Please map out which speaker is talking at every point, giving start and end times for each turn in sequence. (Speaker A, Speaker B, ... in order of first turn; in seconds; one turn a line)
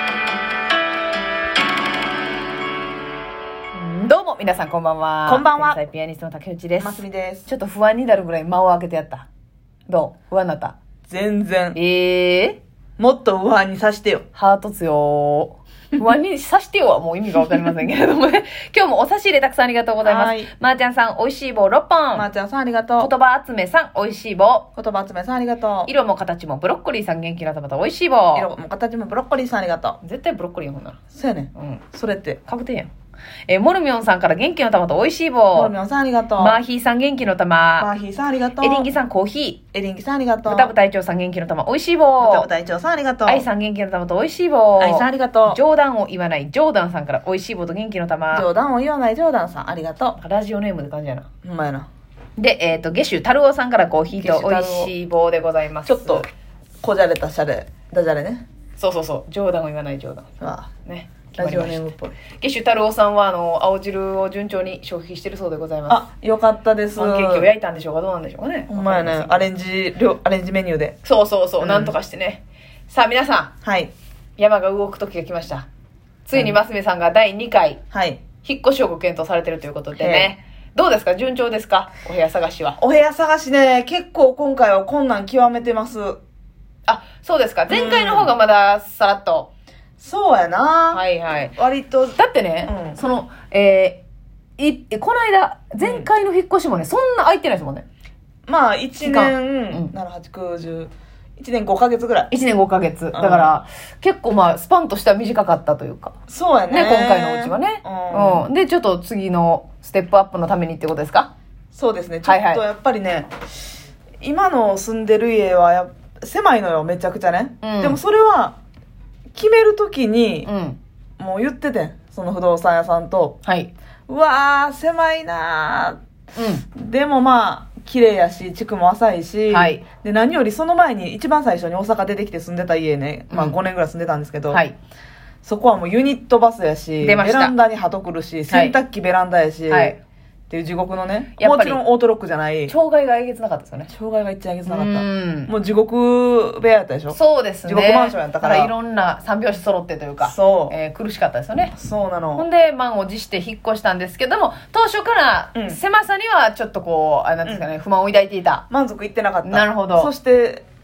Speaker A: 3.7-9.3
Speaker B: 5.3-5.8
Speaker B: 6.8-7.5
Speaker A: 9.9-10.8
Speaker B: 11.1-11.8
Speaker A: 11.7-12.6
Speaker B: 13.0-14.2
Speaker A: 14.3-22.3
Speaker B: 20.0-20.5
Speaker B: 22.1-23.1
Speaker A: 23.0-24.7
Speaker B: 24.8-25.9
Speaker A: 25.9-28.5
Speaker B: 28.3-30.0
Speaker A: 30.0-31.0
Speaker B: 31.1-32.4
Speaker A: 31.5-31.8
Speaker A: 32.5-32.9
Speaker A: 33.5-35.7
Speaker B: 35.5-36.6
Speaker A: 36.4-37.9
Speaker B: 37.8-38.9
Speaker A: 38.6-39.6
Speaker B: 39.7-40.7
Speaker A: 40.4-42.5
Speaker B: 42.2-43.5
Speaker A: 43.2-48.5
Speaker B: 44.8-45.6
Speaker B: 48.3-50.2
Speaker A: 50.2-51.3
Speaker B: 51.4-51.9
Speaker A: 52.4-56.2
Speaker B: 54.1-54.9
Speaker B: 55.8-56.2
Speaker B: 56.8-58.4
Speaker A: 58.8-60.3
Speaker B: 60.4-60.7
Speaker A: 60.8-66.0
Speaker B: 61.3-62.1
Speaker B: 65.9-67.5
Speaker A: 66.9-69.5
Speaker B: 68.7-71.0
Speaker A: 71.0-73.5
Speaker B: 71.6-71.9
Speaker B: 73.6-73.9
Speaker A: 74.4-75.7
Speaker A: 76.2-77.8
Speaker B: 77.9-78.2
Speaker A: 78.4-82.8
Speaker B: 80.0-80.3
Speaker B: 82.8-86.2
Speaker A: 86.9-89.5
Speaker B: 87.7-88.3
Speaker B: 90.0-91.0
Speaker A: 90.9-91.5
Speaker B: 91.5-93.0
Speaker A: 92.1-94.0
Speaker A: 94.6-97.8
Speaker B: 95.8-96.1
Speaker B: 98.5-102.3
Speaker A: 99.0-99.9
Speaker A: 102.3-106.1
Speaker B: 103.1-103.5
Speaker B: 106.3-108.5
Speaker A: 106.7-111.3
Speaker B: 111.7-113.3
Speaker A: 112.2-112.6
Speaker B: 114.2-118.6
Speaker A: 117.6-118.0
Speaker B: 119.3-120.5
Speaker A: 120.4-120.8
Speaker B: 121.2-123.4
Speaker A: 123.4-123.7
Speaker B: 124.1-126.0
Speaker A: 126.3-126.7
Speaker B: 126.7-134.6
Speaker A: 129.5-129.8
Speaker A: 133.3-133.6
Speaker B: 135.4-139.9
Speaker A: 137.0-137.5
Speaker A: 138.5-138.8
Speaker A: 139.7-140.0
Speaker B: 140.5-142.7
Speaker A: 141.4-141.8
Speaker A: 142.7-143.9
Speaker B: 143.9-148.7
Speaker A: 144.7-145.5
Speaker A: 147.1-151.7
Speaker B: 150.2-150.7
Speaker B: 151.7-152.4
Speaker A: 152.3-158.6
Speaker B: 155.5-155.8
Speaker B: 158.7-160.6
Speaker A: 159.4-160.1